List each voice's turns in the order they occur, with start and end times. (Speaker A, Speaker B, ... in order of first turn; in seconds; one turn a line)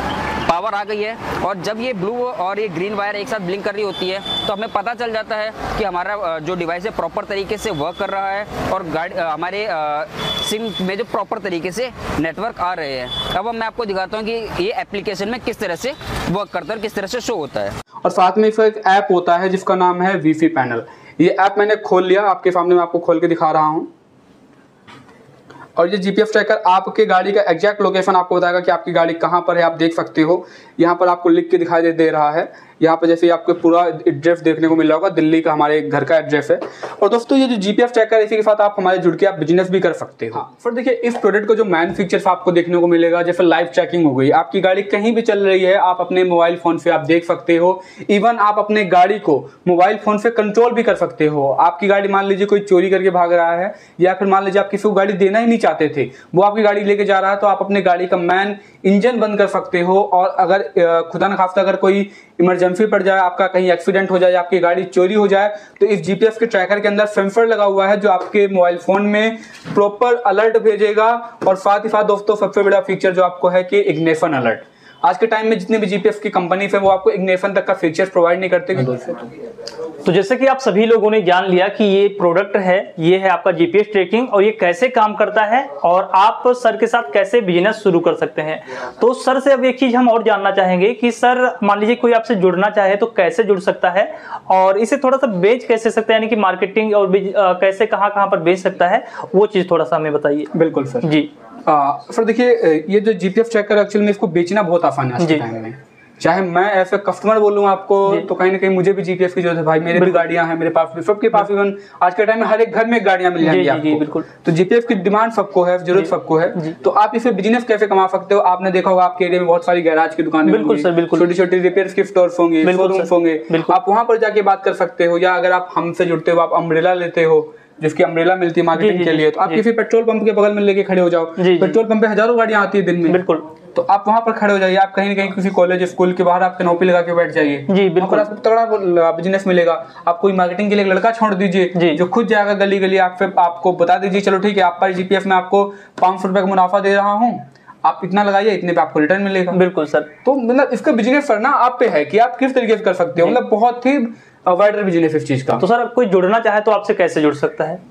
Speaker A: 0.5-17.8
Speaker B: 18.0-23.9
Speaker B: 25.8-79.3
Speaker C: 80.0-100.5
Speaker B: 100.5-101.1
Speaker C: 101.0-101.3
Speaker B: 101.7-149.6
Speaker C: 110.0-110.3
Speaker C: 113.4-114.3
Speaker C: 116.0-116.7
Speaker C: 120.5-121.3
Speaker C: 122.6-123.8
Speaker C: 128.8-129.6
Speaker C: 131.4-131.8
Speaker C: 133.1-133.5
Speaker C: 137.7-138.3
Speaker C: 141.8-142.0
Speaker C: 149.5-150.1
Speaker B: 150.2-155.7
Speaker C: 155.6-157.8